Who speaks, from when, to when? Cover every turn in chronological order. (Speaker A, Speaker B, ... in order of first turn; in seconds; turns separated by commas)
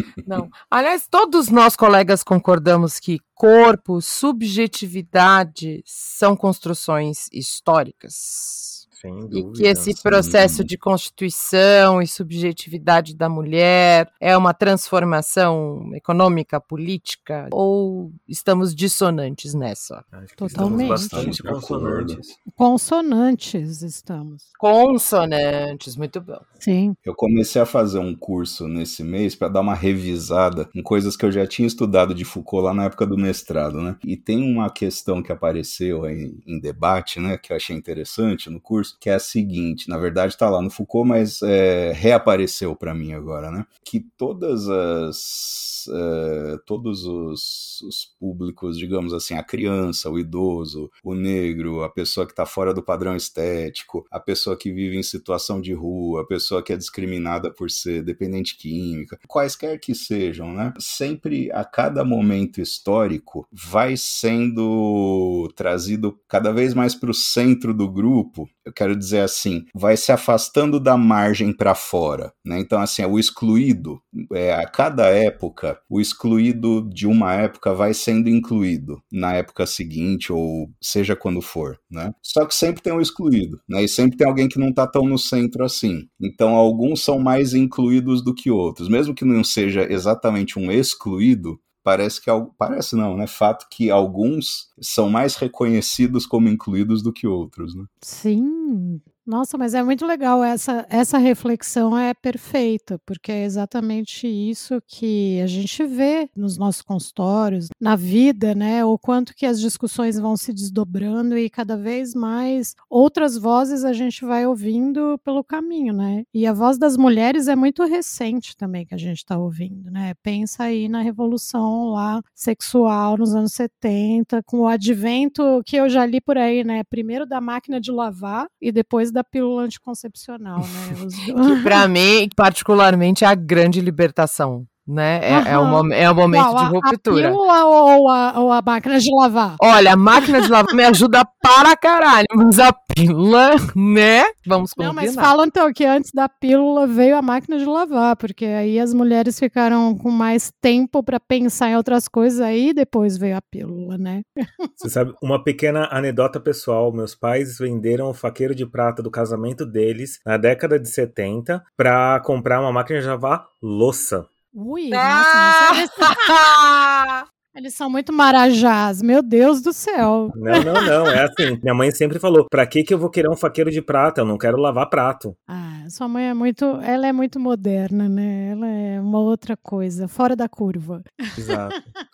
Speaker A: 0.2-20.0, Speaker B: 8.9-10.0, Speaker C: 10.0-10.7, Speaker B: 20.1-22.4, Speaker D: 20.4-21.3, Speaker C: 20.5-22.2, Speaker D: 22.6-24.4, Speaker A: 24.6-26.4, Speaker D: 26.6-26.9, Speaker C: 27.0-97.9, Speaker D: 98.0-131.8, Speaker A: 131.4-137.4, Speaker D: 135.3-139.6, Speaker A: 139.6-145.3, Speaker D: 144.8-154.7, Speaker B: 154.8-164.3, Speaker D: 164.5-166.3, Speaker A: 164.9-167.2, Speaker D: 167.5-170.9, Speaker B: 170.3-175.3, Speaker D: 175.5-181.6, Speaker B: 181.4-181.9